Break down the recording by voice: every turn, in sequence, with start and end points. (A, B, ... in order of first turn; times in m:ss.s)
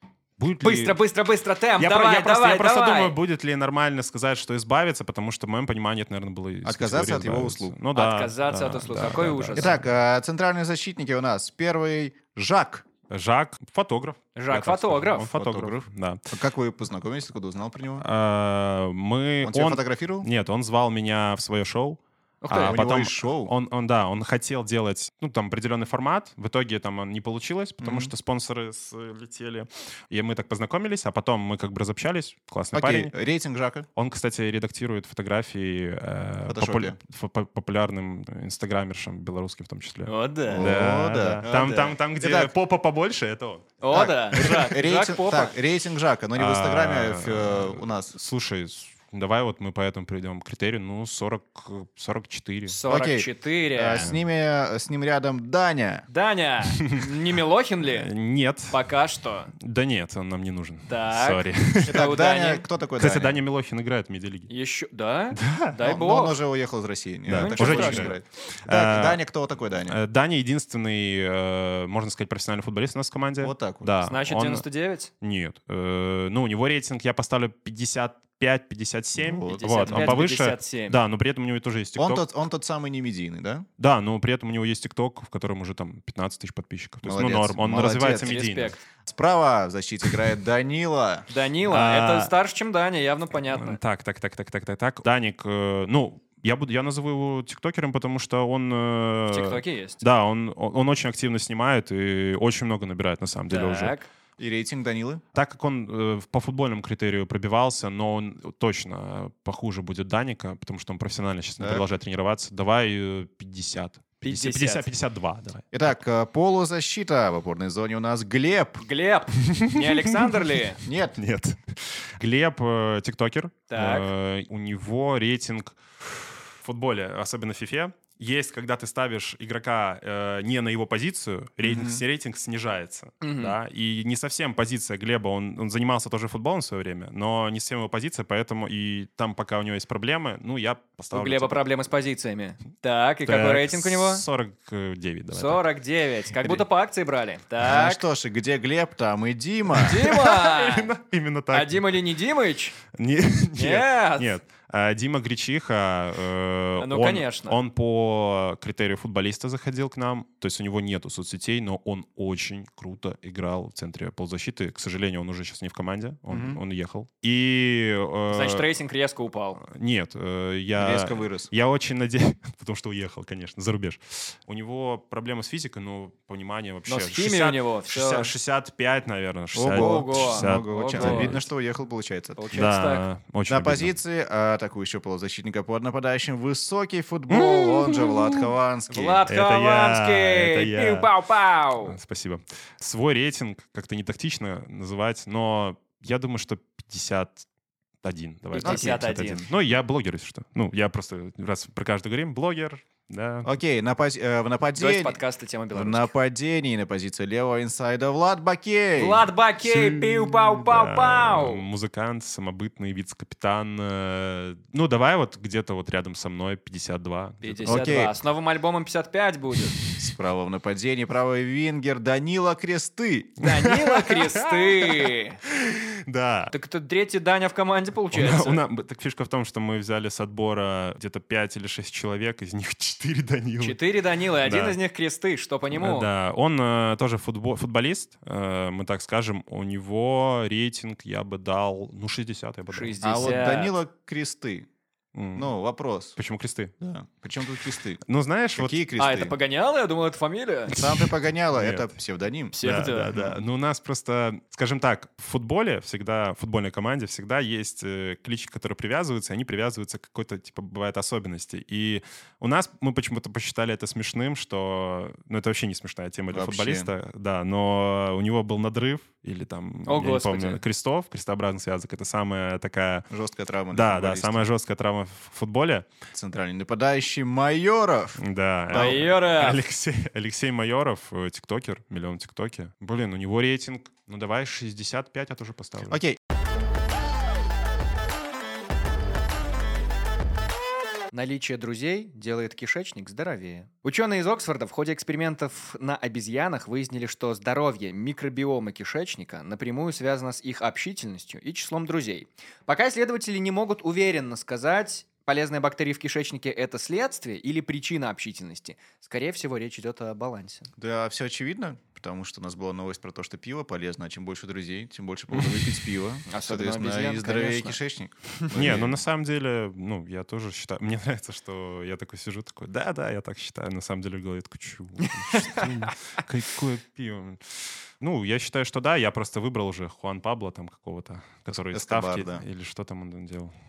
0:00.4-0:01.0 A
0:00.6-0:03.2 B
0:01.8-0:09.8 A
0:06.6-0:07.7 C
0:07.9-0:09.7 B
0:09.5-0:12.9 C
0:13.1-0:16.3 A
0:14.4-0:15.3 B
0:15.2-0:18.0 C
0:18.0-0:33.1 A
0:19.4-0:20.3 C
0:22.4-0:22.8 B
0:22.5-0:23.5 C
0:27.8-0:28.1 C
0:32.7-0:33.9 C
0:33.9-0:43.7 A
0:36.5-0:37.0 C
0:40.1-0:40.7 B
0:40.5-0:42.5 C
0:43.8-0:45.5 B
0:43.9-0:48.2 C
0:46.3-0:52.8 A
0:52.7-0:54.1 B
0:52.9-0:56.0 C
0:56.1-0:58.1 B
0:56.8-0:57.0 A
0:57.8-0:58.8 A
0:58.7-0:59.5 B
0:59.5-1:02.0 A
1:00.9-1:02.6 B
1:01.9-1:03.4 C
1:03.0-1:04.5 A
1:04.5-1:06.4 B
1:05.3-1:05.8 A
1:05.8-1:10.0 C
1:07.3-1:09.2 A
1:07.3-1:08.2 B
1:09.8-1:14.6 A
1:13.4-1:13.9 C
1:14.0-1:15.1 B
1:15.2-1:22.2 A
1:19.2-1:20.2 C
1:19.5-1:21.0 B
1:22.0-1:23.7 C
1:23.8-1:28.8 A
1:27.0-1:28.4 C
1:28.0-1:28.8 B
1:29.0-1:31.2 C
1:31.3-1:33.8 B
1:31.6-1:32.3 A
1:33.5-1:44.0 A
1:39.3-1:40.0 B
1:43.5-1:44.1 B
1:44.4-1:45.2 C
1:45.3-1:55.9 A
1:51.6-1:51.8 C
1:54.2-1:54.9 B
1:55.7-1:58.8 C
1:58.8-2:00.8 B
1:59.4-2:00.4 A
2:00.8-2:01.2 C
2:01.2-2:21.6 A
2:03.7-2:04.1 B
2:11.6-2:12.0 C
2:13.2-2:13.5 B
2:21.1-2:24.2 B
2:23.2-2:25.6 A
2:25.3-2:28.0 B
2:27.6-2:30.0 C
2:29.8-2:30.9 B
2:29.8-2:32.0 A
2:31.5-2:32.8 B
2:32.9-2:48.7 A
2:33.6-2:34.3 B
2:36.8-2:37.6 B
2:46.3-2:46.6 C
2:48.3-2:49.6 B
2:49.6-3:01.4 A
2:50.8-2:51.5 C
2:56.9-2:58.3 B
2:59.5-3:02.6 C
2:59.7-3:01.3 B
3:02.4-3:03.0 B
3:02.5-3:03.9 A
3:03.5-3:09.2 C
3:07.3-3:08.4 A
3:08.9-3:12.0 B
3:09.3-3:11.1 A
3:11.8-3:17.4 A
3:18.0-3:23.5 A
3:18.5-3:19.5 B
3:18.6-3:19.0 C
3:23.4-3:25.2 C
3:24.8-3:26.1 B
3:25.7-3:29.3 C
3:29.0-3:31.6 B
3:29.6-3:38.0 A
3:37.4-3:39.8 B
3:37.6-3:38.1 C
3:40.0-3:43.4 C
3:43.4-3:45.4 B
3:43.5-3:46.5 A
3:46.5-3:48.6 B
3:48.1-3:53.8 A
3:53.6-3:56.1 B
3:54.4-3:54.8 A
3:55.7-4:03.4 A
4:02.7-4:03.7 B
4:03.0-4:04.7 C
4:05.1-4:05.5 A
4:05.4-4:06.2 C
4:06.2-4:06.8 A
4:06.8-4:08.0 C
4:08.0-4:08.8 A
4:08.5-4:09.3 C
4:09.0-4:10.8 B
4:10.7-4:12.5 C
4:11.5-4:11.9 A
4:12.5-4:13.3 B
4:12.6-4:33.1 A
4:26.3-4:26.9 C
4:29.8-4:30.6 B
4:33.1-4:34.5 C
4:33.7-4:35.9 A
4:36.1-4:39.0 C
4:38.2-4:46.0 A
4:38.7-4:39.6 B
4:45.9-4:46.2 C
4:51.1-5:10.7 B
5:10.8-5:19.0 C
5:16.3-5:17.8 B
5:18.4-5:18.8 B
5:18.5-5:33.5 A
5:25.3-5:25.6 B
5:31.7-5:32.4 C